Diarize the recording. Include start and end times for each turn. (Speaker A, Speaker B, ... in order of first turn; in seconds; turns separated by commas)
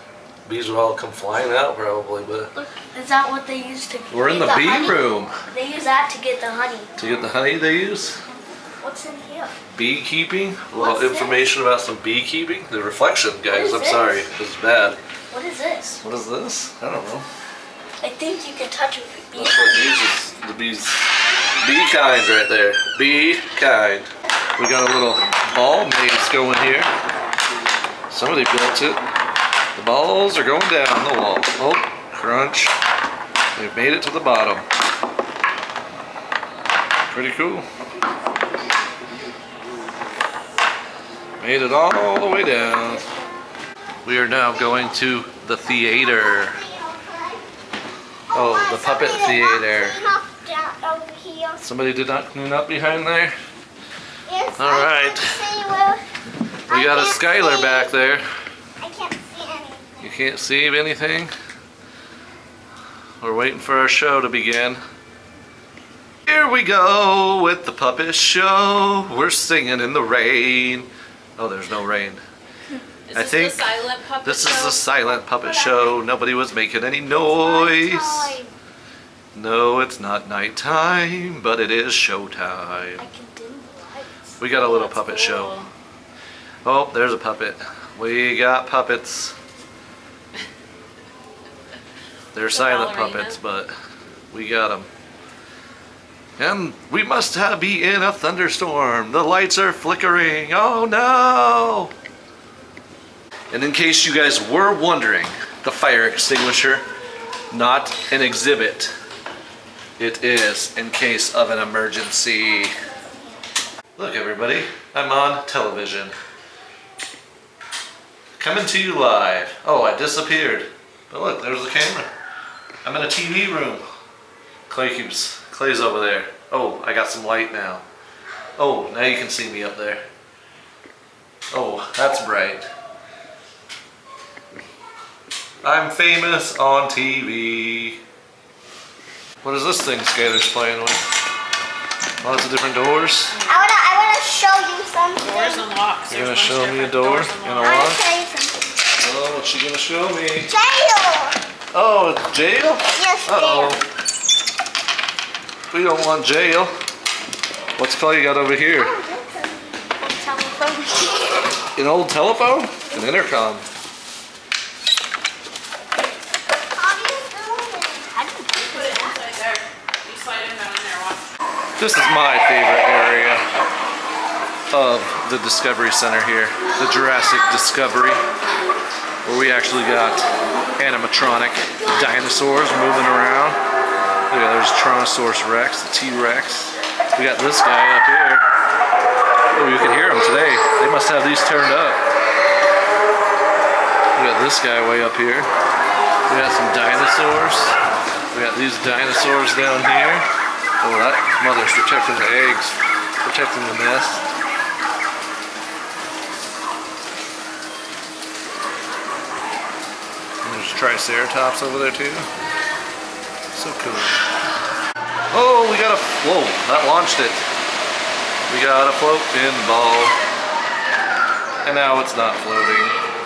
Speaker A: 0.5-2.5, Speaker B: 2.5-6.9, Speaker A: 4.1-5.3, Speaker A: 7.0-8.2, Speaker B: 8.8-9.5, Speaker A: 9.7-15.0, Speaker B: 10.7-11.5, Speaker B: 13.5-14.2, Speaker B: 15.3-16.0, Speaker A: 16.0-17.3, Speaker B: 18.0-20.1, Speaker A: 19.4-21.1, Speaker A: 21.6-26.9, Speaker A: 28.1-29.0, Speaker A: 29.8-32.7, Speaker A: 33.5-34.7, Speaker A: 37.1-37.7, Speaker A: 41.4-43.0, Speaker A: 44.0-46.6, Speaker B: 46.4-47.4, Speaker B: 48.3-51.6, Speaker A: 48.3-50.1, Speaker A: 51.6-53.4, Speaker B: 54.3-56.0, Speaker A: 54.6-55.5, Speaker B: 56.7-58.0, Speaker A: 56.7-58.3, Speaker B: 58.8-60.0, Speaker A: 60.0-61.3, Speaker A: 63.2-64.8, Speaker A: 66.3-72.2, Speaker C: 73.1-75.9, Speaker A: 73.1-73.6, Speaker A: 74.2-78.4, Speaker B: 77.3-78.5, Speaker A: 79.3-83.1, Speaker B: 83.0-84.2, Speaker A: 84.4-85.6, Speaker C: 84.5-85.7, Speaker A: 86.6-89.4, Speaker A: 92.3-93.7, Speaker C: 92.5-93.4, Speaker A: 94.3-94.9, Speaker A: 96.4-101.9, Speaker A: 103.5-106.8, Speaker A: 107.5-108.9, Speaker A: 110.0-112.7, Speaker A: 114.0-116.1, Speaker A: 118.4-122.1, Speaker A: 122.8-123.8, Speaker A: 124.7-127.8, Speaker A: 128.6-130.1, Speaker A: 131.5-132.7, Speaker A: 135.6-138.0, Speaker A: 139.4-141.1, Speaker A: 142.2-143.4, Speaker C: 143.3-143.7, Speaker B: 143.5-145.6, Speaker C: 145.2-147.9, Speaker A: 146.1-148.0, Speaker B: 147.6-148.7, Speaker A: 149.0-150.5, Speaker B: 150.5-151.4, Speaker A: 151.7-153.8, Speaker B: 152.9-153.8, Speaker A: 155.7-156.8, Speaker A: 157.8-159.0, Speaker B: 158.7-161.4, Speaker A: 161.8-163.7, Speaker B: 166.7-169.2, Speaker C: 168.5-171.3, Speaker A: 171.8-173.4, Speaker A: 174.7-178.2, Speaker A: 179.2-183.6, Speaker A: 184.3-188.5, Speaker A: 189.5-192.0, Speaker A: 194.2-195.5, Speaker A: 196.3-197.8, Speaker A: 198.3-200.2, Speaker A: 200.8-204.2, Speaker A: 210.4-212.3, Speaker A: 213.5-214.2, Speaker A: 215.3-217.4, Speaker A: 218.5-220.2, Speaker A: 221.6-223.0